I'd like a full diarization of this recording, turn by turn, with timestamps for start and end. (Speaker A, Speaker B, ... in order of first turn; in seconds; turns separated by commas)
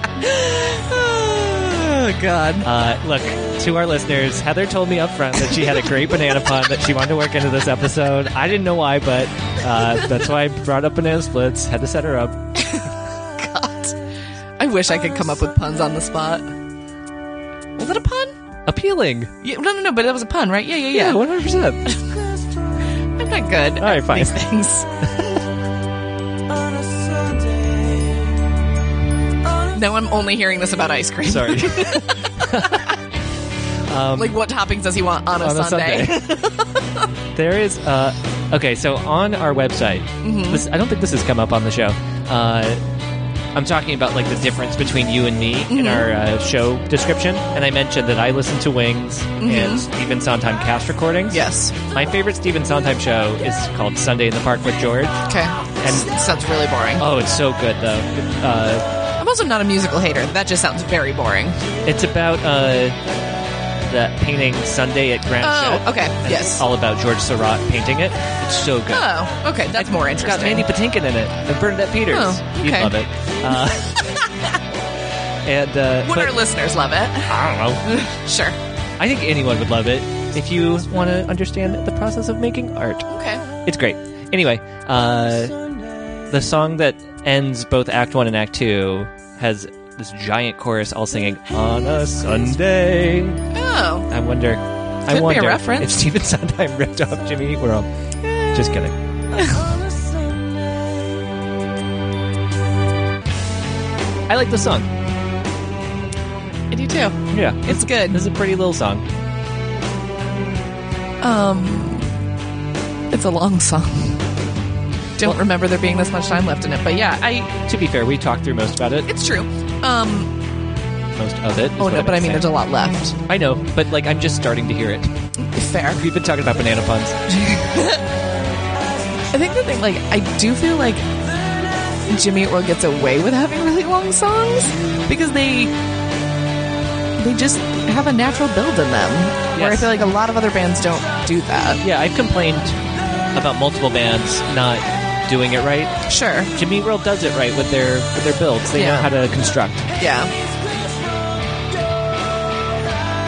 Speaker A: 0.2-2.7, Speaker B: 2.6-12.4, Speaker A: 12.6-14.0, Speaker A: 14.6-16.5, Speaker A: 17.8-18.4, Speaker B: 18.7-19.3, Speaker A: 19.4-21.2, Speaker B: 20.9-21.8, Speaker A: 21.9-22.1, Speaker A: 23.2-24.9, Speaker B: 23.8-24.4, Speaker C: 26.5-28.3, Speaker A: 29.7-33.0, Speaker B: 31.3-33.0, Speaker B: 33.9-34.4, Speaker A: 34.1-37.1, Speaker B: 35.4-36.4, Speaker B: 37.3-42.8, Speaker A: 40.2-40.6, Speaker B: 43.5-55.2, Speaker A: 45.7-46.1, Speaker A: 49.4-49.9, Speaker A: 51.3-51.8, Speaker A: 55.3-57.1, Speaker B: 55.8-56.1, Speaker B: 57.0-58.9, Speaker A: 59.2-61.6, Speaker B: 61.9-63.0, Speaker B: 63.9-69.1, Speaker A: 65.4-66.6, Speaker A: 68.9-70.7, Speaker B: 69.8-74.1, Speaker A: 72.1-72.9, Speaker A: 73.5-74.6, Speaker B: 75.5-76.4, Speaker A: 76.0-78.6, Speaker B: 77.3-77.8, Speaker B: 79.0-83.1, Speaker A: 83.1-83.5, Speaker B: 83.6-85.6, Speaker B: 86.3-93.4, Speaker A: 93.5-94.1, Speaker B: 94.1-97.9, Speaker A: 95.1-96.0, Speaker A: 98.2-98.5, Speaker B: 98.5-99.0, Speaker A: 99.3-99.7, Speaker C: 99.5-101.1, Speaker B: 104.3-104.9, Speaker A: 106.7-108.2, Speaker B: 107.3-109.0, Speaker A: 111.2-112.1, Speaker A: 113.1-114.2, Speaker A: 115.2-117.6, Speaker B: 117.7-119.1, Speaker A: 119.1-120.3, Speaker B: 121.2-122.5, Speaker A: 121.8-123.2, Speaker B: 123.3-125.1, Speaker A: 125.4-126.0, Speaker B: 125.9-127.2, Speaker A: 127.3-128.0, Speaker A: 129.3-131.1, Speaker A: 132.1-135.7, Speaker A: 137.2-141.8, Speaker B: 139.5-140.0, Speaker B: 141.8-142.8, Speaker B: 143.3-146.0, Speaker A: 146.1-146.5, Speaker B: 146.6-149.9, Speaker A: 148.8-149.1, Speaker A: 150.0-150.3